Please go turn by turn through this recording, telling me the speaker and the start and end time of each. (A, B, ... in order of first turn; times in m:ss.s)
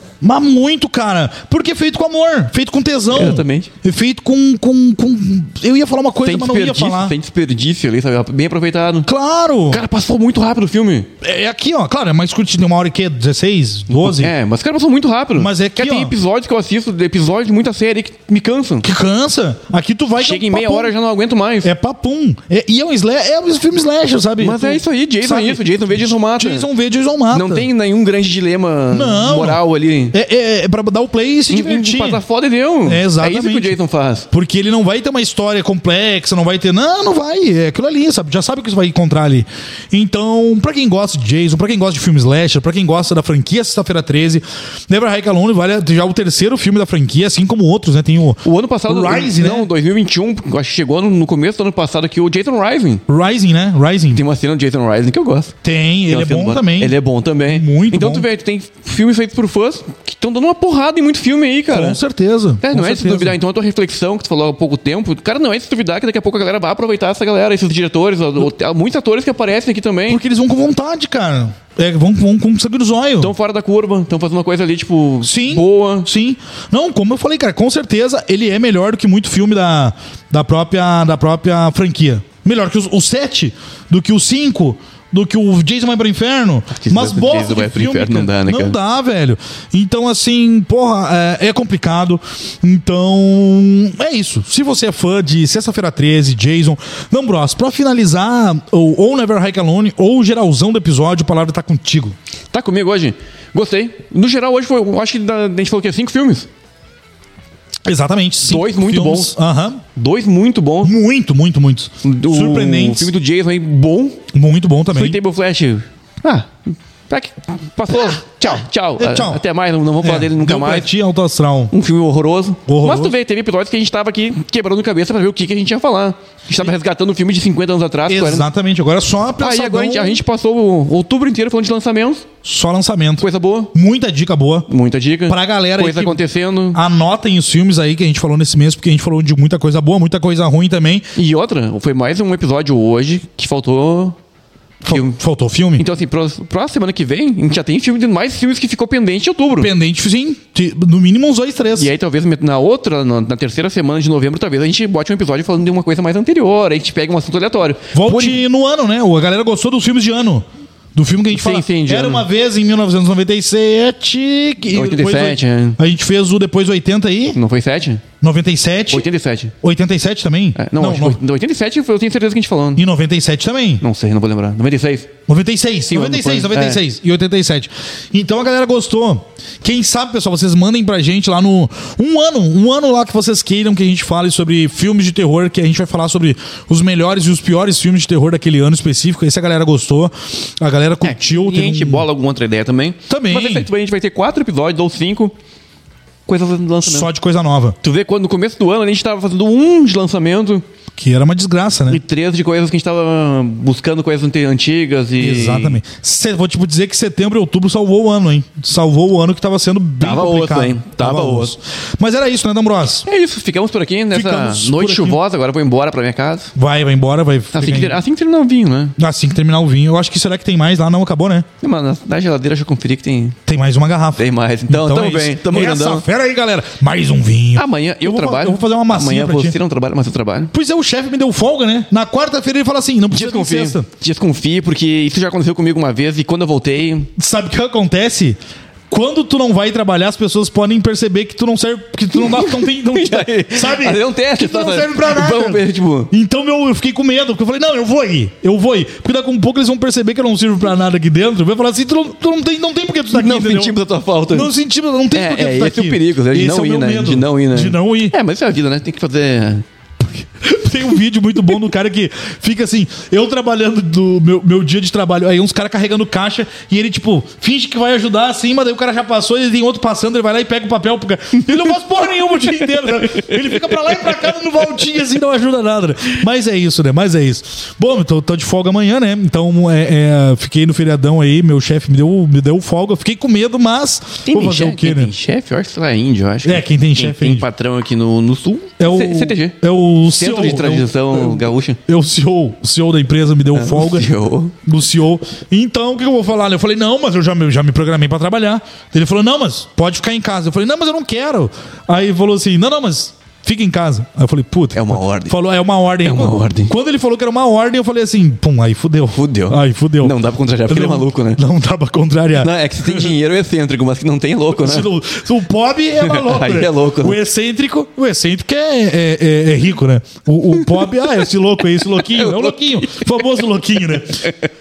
0:00.2-0:07.1 A
0:03.1-0:03.7 B
0:06.2-0:09.1 B
0:09.0-0:09.8 A
0:09.7-0:11.1 B
0:11.2-0:14.3 A
0:13.9-0:18.9 B
0:15.4-0:16.1 A
0:18.8-0:20.9 A
0:20.2-0:21.7 B
0:21.6-0:27.7 A
0:24.4-0:26.7 B
0:27.3-0:30.1 B
0:28.9-0:29.6 A
0:30.1-0:32.2 A
0:31.5-0:34.3 B
0:32.8-0:33.7 A
0:34.3-0:49.7 A
0:48.4-0:53.0 B
0:53.1-0:54.2 A
0:54.1-0:55.5 B
0:55.6-0:56.9 A
0:56.1-1:02.0 B
0:57.4-0:58.2 A
1:01.7-1:03.4 A
1:02.6-1:10.2 B
1:10.1-1:13.3 A
1:13.2-1:16.1 B
1:15.2-1:42.1 A
1:26.7-1:28.8 B
1:42.5-1:46.5 B
1:47.8-1:49.8 A
1:48.4-1:49.4 B
1:49.9-1:50.9 B
1:50.8-1:53.1 A
1:52.0-1:54.2 B
1:54.3-1:55.2 A
1:54.9-2:00.9 B
1:58.4-1:59.4 A
2:00.0-2:01.7 A
2:01.7-2:08.5 B
2:02.6-2:03.1 A
2:08.1-2:10.2 A
2:09.4-2:12.3 B
2:12.4-2:14.7 A
2:13.2-2:13.7 B
2:14.7-2:16.8 B
2:15.3-2:16.2 A
2:16.7-2:21.1 A
2:21.1-2:24.2 B
2:24.8-2:25.8 A
2:24.9-2:25.2 B
2:25.8-2:29.7 B
2:29.6-2:31.9 A
2:31.8-2:38.4 B
2:37.9-2:40.4 A
2:41.0-2:47.4 A
2:41.3-2:42.3 B
2:44.7-2:45.8 B
2:47.3-2:48.0 B
2:48.2-2:49.1 A
2:48.9-2:49.5 B
2:49.6-2:51.2 A
2:50.6-2:52.8 B
2:52.8-2:53.8 A
2:53.8-2:55.1 B
2:55.3-3:12.1 A
2:55.9-2:56.8 B
3:11.0-3:15.3 B
3:13.1-3:13.7 A
3:16.3-3:17.1 B
3:16.8-3:17.8 A
3:17.8-3:20.6 B
3:20.9-3:22.0 A
3:21.9-3:25.8 B
3:25.2-3:33.0 A
3:30.0-3:31.5 B
3:33.0-3:36.5 B
3:34.1-3:35.2 A
3:36.5-3:38.0 A
3:37.5-3:39.0 B
3:39.0-3:41.4 A
3:41.6-3:43.4 B
3:43.4-3:49.6 A
3:44.2-3:46.0 B
3:47.5-3:50.5 B
3:50.5-3:53.9 A
3:53.1-3:57.1 B
3:57.2-3:58.4 A
3:58.9-4:13.8 A
4:02.1-4:06.1 B
4:13.1-4:14.5 B
4:14.3-4:18.1 A
4:15.1-4:19.6 B
4:20.4-4:45.1 A
4:33.0-4:34.2 B
4:44.2-4:49.6 B
4:46.4-4:47.4 A
4:48.8-4:54.1 A
4:50.1-4:51.8 B
4:53.5-4:54.5 B
4:54.6-5:10.1 A
5:04.7-5:05.3 B
5:06.0-5:06.7 B
5:09.1-5:11.4 B
5:10.7-5:13.1 A
5:12.4-5:14.9 B
5:14.6-5:24.4 A
5:16.0-5:17.2 B
5:22.0-5:23.1 B
5:23.9-5:24.3 B